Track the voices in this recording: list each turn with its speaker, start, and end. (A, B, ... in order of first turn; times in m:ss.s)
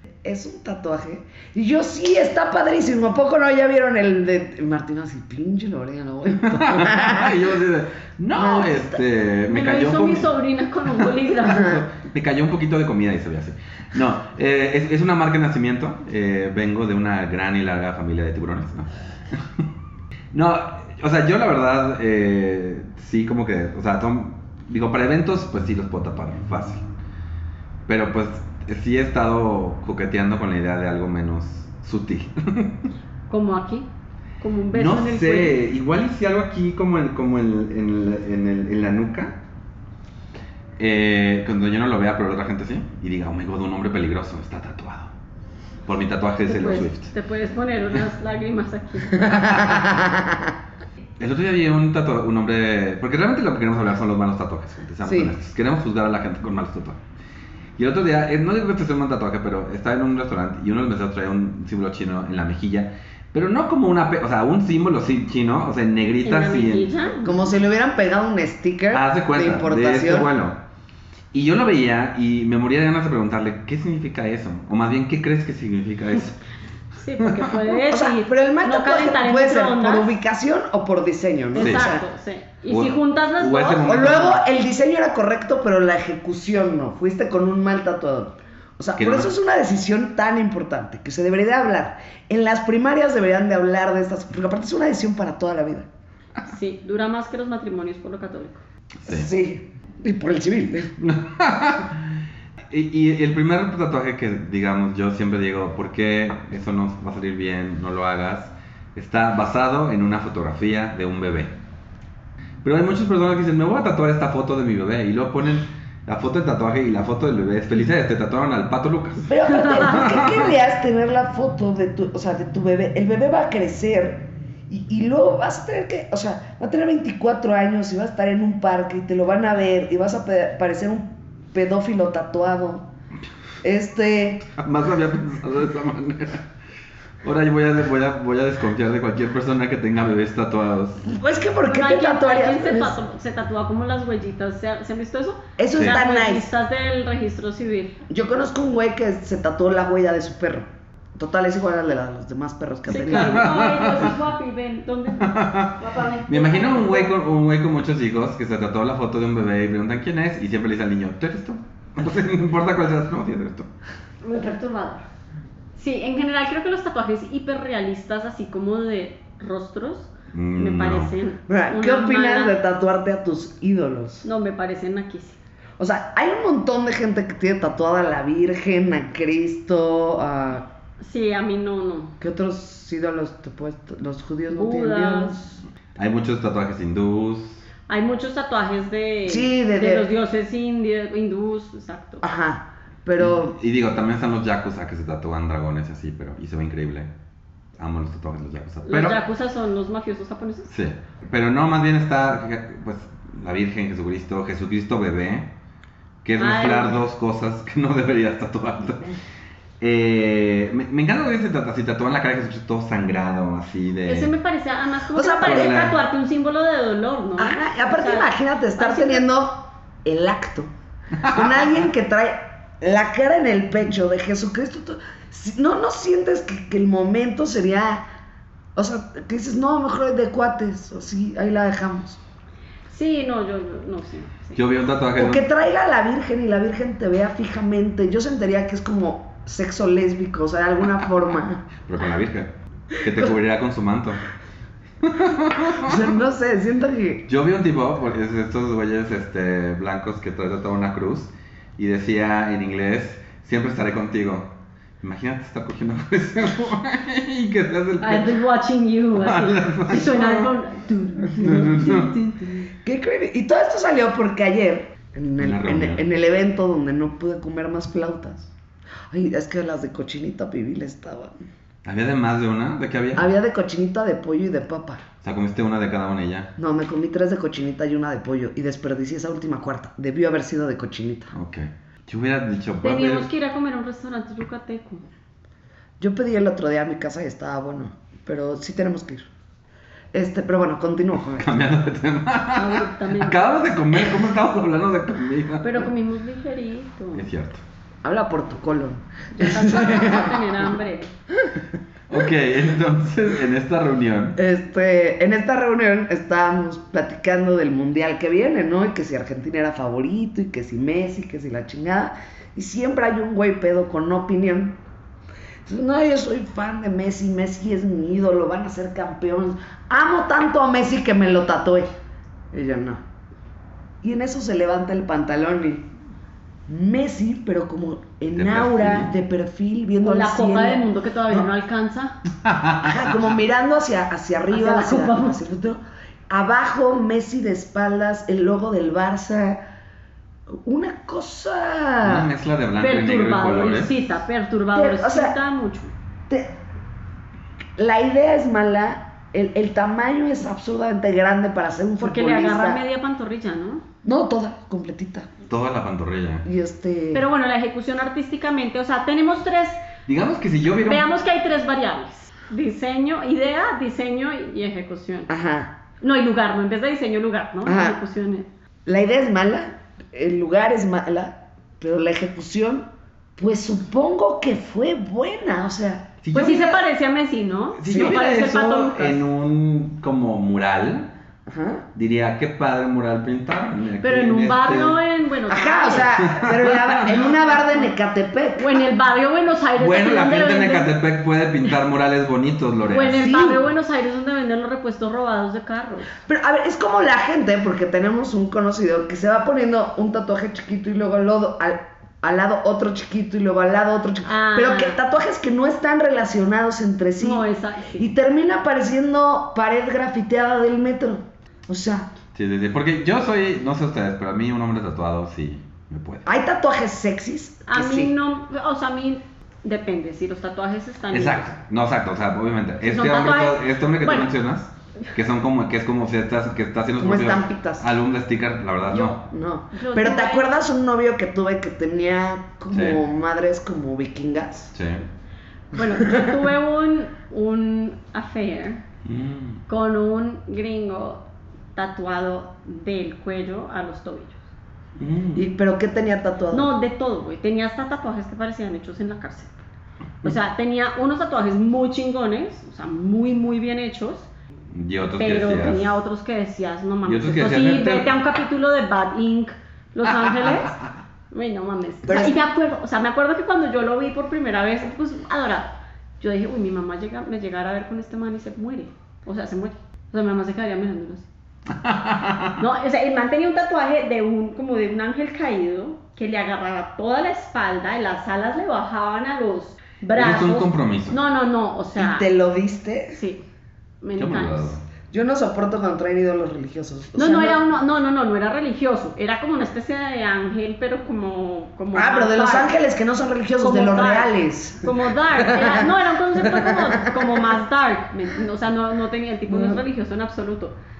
0:00.2-0:07.4 A
0:06.4-0:10.3 B
0:08.3-0:09.0 A
0:09.5-0:11.8 C
0:11.0-0:19.6 B
0:11.5-0:11.8 A
0:20.3-0:26.8 B
0:27.9-0:32.8 B
0:33.3-0:33.9 C
0:34.4-0:35.6 C
0:34.7-0:39.4 B
0:40.8-0:45.1 B
0:45.8-0:47.1 B
0:46.5-0:49.8 C
0:49.2-0:50.5 A
0:51.2-0:57.0 B
0:55.0-0:55.3 A
0:57.8-1:06.9 B
1:06.2-1:07.4 C
1:07.2-1:10.3 A
1:08.9-1:10.6 B
1:11.3-1:16.4 B
1:16.9-1:20.2 C
1:17.2-1:17.5 B
1:17.9-1:22.0 A
1:21.5-1:23.9 C
1:21.6-1:21.9 B
1:22.7-1:24.4 B
1:23.8-1:35.9 A
1:29.0-1:29.3 B
1:36.4-1:38.6 C
1:39.0-1:39.3 B
1:39.0-1:40.9 A
1:41.0-1:42.0 B
1:42.7-1:51.5 B
1:52.6-2:00.5 B
1:59.3-2:12.9 A
2:13.6-2:14.5 A
2:14.6-2:16.4 B
2:17.2-2:21.1 B
2:21.0-2:22.9 A
2:21.7-2:28.0 C
2:25.6-2:26.5 A
2:28.1-2:33.6 A
2:32.9-2:37.1 C
2:33.1-2:34.1 B
2:35.2-2:43.7 B
2:44.2-2:45.0 C
2:45.8-2:52.6 C
2:50.3-2:51.1 B
2:51.5-2:54.2 A
2:54.2-2:55.4 C
2:55.8-3:00.6 A
3:01.0-3:02.1 C
3:02.2-3:05.4 A
3:04.5-3:05.6 C
3:06.0-3:07.6 B
3:07.9-3:12.2 C
3:09.2-3:10.1 A
3:12.2-3:13.6 A
3:13.2-3:17.1 B
3:17.8-3:19.2 B
3:18.8-3:20.7 C
3:20.7-3:25.5 B
3:26.2-3:29.2 B
3:26.4-3:27.0 C
3:29.8-3:34.3 B
3:34.0-3:39.2 C
3:35.1-3:35.7 A
3:35.3-3:36.0 B
3:37.4-3:40.7 A
3:41.3-3:48.0 A
3:48.8-3:52.2 A
3:52.9-3:54.6 C
3:54.5-3:55.5 B
3:55.2-4:01.6 A
4:01.8-4:04.2 B
4:05.0-4:06.0 B
4:05.8-4:07.2 A
4:07.3-4:18.4 B
4:18.0-4:22.6 C
4:19.1-4:20.5 B
4:21.3-4:22.2 B
4:21.4-4:21.8 A
4:22.7-4:28.5 A
4:25.4-4:26.0 B
4:29.1-4:31.4 A
4:31.8-4:33.3 B
4:33.1-4:35.0 A
4:35.2-4:36.5 B
4:36.6-4:41.3 A
4:41.3-4:43.3 B
4:42.8-4:45.0 C
4:46.0-4:49.3 A
4:50.1-4:51.7 A
4:51.4-4:55.9 B
4:52.5-4:53.4 C
4:55.6-4:57.3 C
4:57.1-4:57.6 B
4:58.0-5:00.4 A
4:59.3-5:01.1 C
5:02.1-5:04.4 B
5:04.4-5:14.8 A
5:15.6-5:21.9 A
5:22.5-5:23.0 A
5:24.0-5:25.9 A
5:26.7-5:31.5 A
5:28.3-5:29.1 B
5:30.0-5:32.2 C
5:32.4-5:33.2 B
5:32.8-5:39.6 A
5:34.5-5:35.4 C
5:40.6-5:42.3 A
5:42.0-5:43.9 B
5:42.8-5:45.9 C
5:44.7-5:45.4 A
5:46.3-5:46.6 A
5:47.8-5:52.8 A
5:52.0-5:53.8 C
5:54.0-5:55.3 A
5:55.5-5:56.4 B
5:56.4-5:57.2 A
5:57.1-5:59.8 C
6:00.0-6:01.0 B
6:00.8-6:05.3 C
6:05.3-6:05.8 A
6:06.0-6:08.5 C
6:07.6-6:08.0 A
6:08.8-6:16.2 A
6:16.2-6:16.8 B
6:16.3-6:19.2 C
6:17.8-6:21.1 B
6:17.8-6:18.2 A
6:21.5-6:21.8 A
6:21.9-6:25.0 B
6:24.0-6:26.1 C
6:25.5-6:28.8 A
6:26.2-6:27.3 B
6:27.3-6:27.9 C
6:28.6-6:30.9 C
6:29.8-6:33.3 B
6:32.9-6:36.1 C
6:33.2-6:33.6 A
6:36.2-6:47.4 A
6:44.2-6:45.0 C
6:47.2-6:48.1 C
6:48.0-6:52.1 A
6:52.3-6:56.3 B
6:56.2-6:58.1 A
6:57.7-7:01.5 C
7:01.1-7:09.2 B
7:02.8-7:04.3 C
7:07.0-7:07.9 A
7:09.0-7:14.7 A
7:09.7-7:10.5 C
7:12.7-7:13.0 B
7:14.7-7:15.0 B
7:15.7-7:18.8 C
7:15.8-7:16.4 A
7:19.0-7:19.6 B
7:19.7-7:24.4 C
7:25.0-7:25.4 B
7:25.3-7:26.7 A
7:26.5-7:29.6 C
7:30.2-7:34.3 C
7:34.7-7:36.0 B
7:35.2-7:40.8 C
7:37.0-7:38.1 B
7:40.1-7:40.8 B
7:41.3-7:51.3 C
7:42.0-7:42.4 A
7:51.7-7:52.6 B
7:52.6-8:02.3 C
8:00.1-8:01.2 B
8:02.0-8:03.2 A
8:03.1-8:03.4 C
8:04.0-8:04.7 C
8:04.2-8:04.8 B
8:05.1-8:07.6 A
8:07.2-8:12.7 C
8:11.9-8:17.4 A
8:13.6-8:20.7 C
8:19.5-8:19.8 A